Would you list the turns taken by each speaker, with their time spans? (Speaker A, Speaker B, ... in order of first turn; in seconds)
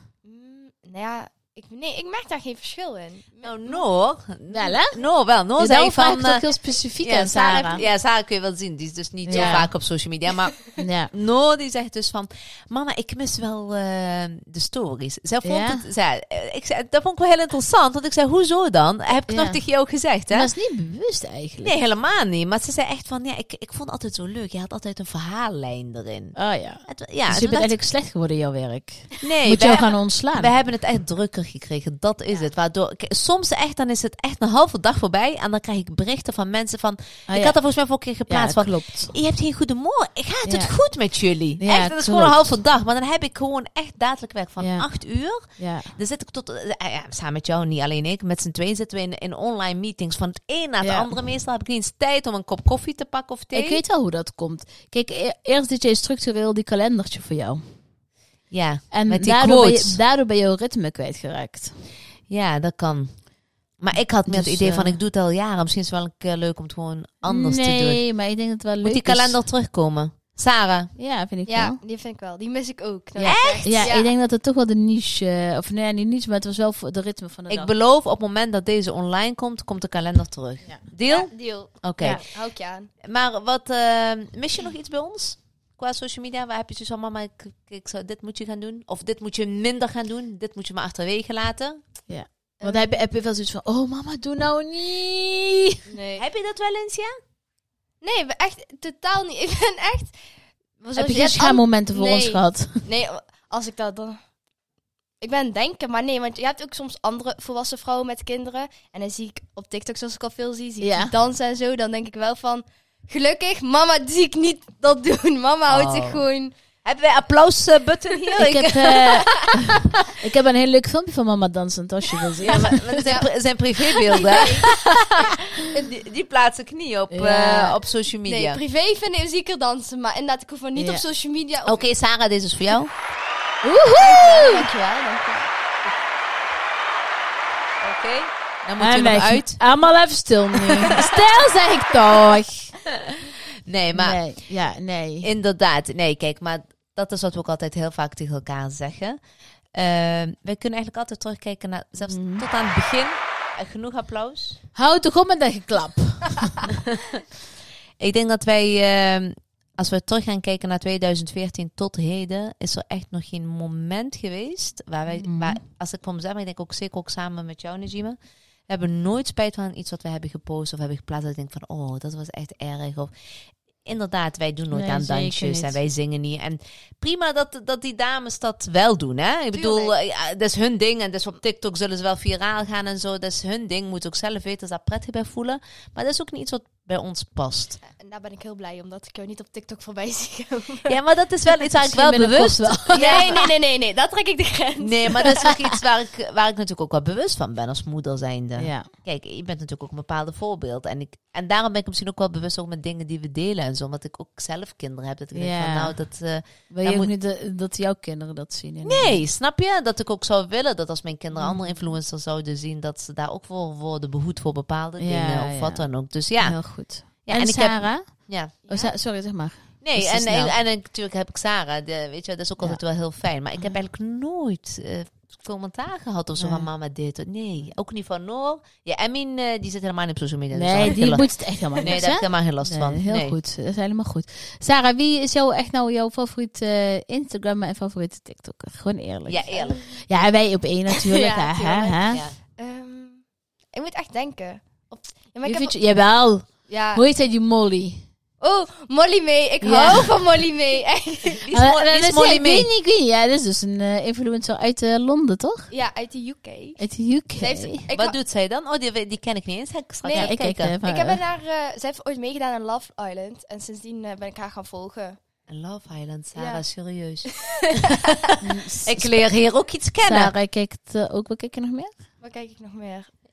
Speaker A: 0.2-3.8, 7.3-7.9, 9.3-9.6, 71.5-74.1, 81.0-82.9, 92.6-93.0, 95.9-96.2, 98.0-100.2, 100.8-104.2, 105.2-116.5, 119.1-119.6, 122.5-123.3, 124.1-124.8, 128.3-131.8, 134.0-135.5, 179.5-179.9, 187.9-190.9, 192.9-195.5, 218.6-218.9, 239.5-239.9, 240.9-245.7, 246.7-247.0, 248.4-251.5, 255.7-256.8, 257.4-258.1, 260.0-265.2, 266.4-266.6, 267.3-268.3, 272.2-273.1
Speaker B: 3.4-20.5, 21.6-27.7, 29.2-53.8, 58.5-60.0, 62.3-63.3, 63.8-68.0, 68.8-70.9, 73.2-73.9, 77.5-82.2, 83.0-91.8, 96.2-97.1, 115.7-116.2, 116.8-119.1, 122.4-128.6, 131.6-132.9, 137.8-139.6, 140.6-141.0, 143.1-144.2, 145.2-149.2, 149.7-154.6, 158.0-168.2, 168.7-173.1, 173.8-187.8, 190.8-193.4, 194.8-207.1, 208.8-218.5, 219.8-233.3, 239.2-239.8, 242.1-242.3, 251.3-252.7, 257.9-260.8, 265.5-270.3
Speaker C: 4.5-5.0, 5.6-7.8, 9.2-9.7, 10.8-11.1, 15.4-15.8, 19.3-19.6, 20.3-21.7, 26.4-30.5, 37.3-37.6, 38.2-39.1, 40.5-40.8, 41.6-42.6, 44.6-45.9, 50.8-51.1, 53.5-57.6, 58.9-61.7, 64.3-65.0, 67.2-69.4, 71.0-71.8, 73.2-77.7, 92.1-95.8, 100.9-102.8, 110.8-111.1, 118.4-123.2, 127.1-127.8, 130.8-131.0, 133.6-134.7, 138.8-142.8, 143.9-145.3, 152.1-152.4, 154.7-156.7, 165.1-165.6, 174.7-175.8, 191.8-193.3, 198.6-198.9, 205.3-205.9, 206.7-209.2, 211.3-211.9, 215.0-215.9, 216.4-220.5, 226.4-226.7, 230.5-242.2, 245.4-248.0, 249.6-250.1, 251.5-255.7, 256.8-257.9, 260.2-261.2, 268.4-269.3, 270.1-271.9